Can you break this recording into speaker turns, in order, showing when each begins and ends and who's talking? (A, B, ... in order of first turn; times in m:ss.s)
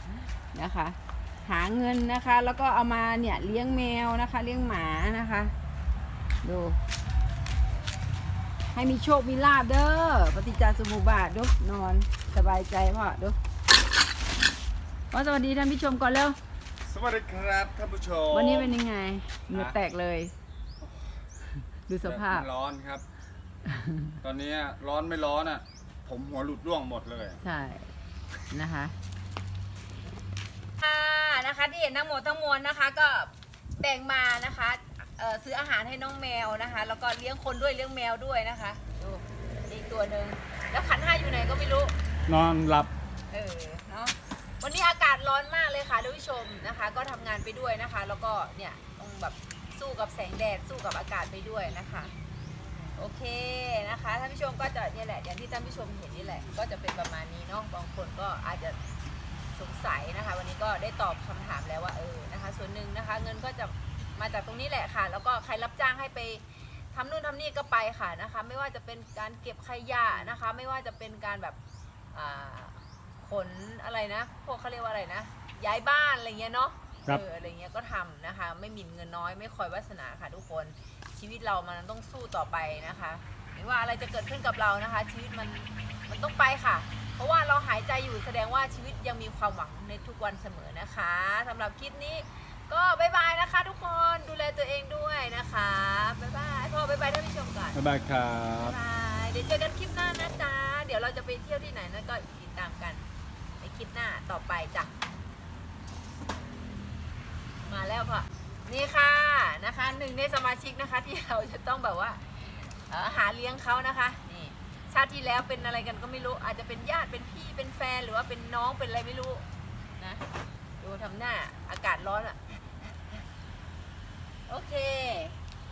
0:00.5-0:05.5 A
0:06.4-0:06.8 A
0:08.7-0:13.4 A
0:15.1-0:16.4 A
0:16.8-0:18.7 B
0:18.3-0:20.3 A
0:21.9-0:22.5 A
0:22.0-0:23.0 B
0:23.7-0:24.2 A
0:24.2-0:27.4 B
0:27.4-0:27.9 A
0:28.5-0:29.0 A
0:30.8-0:41.9 A
0:42.3-0:42.9 B
0:43.3-0:52.2 A
0:52.9-0:58.8 A
0:59.5-1:11.6 A
1:12.1-1:37.8 A
1:37.7-1:38.8 B
1:38.6-1:43.0 A
1:43.6-1:44.9 A
1:47.6-1:59.5 A
2:00.0-2:00.2 A
2:00.8-2:02.4 A
2:04.5-2:05.4 A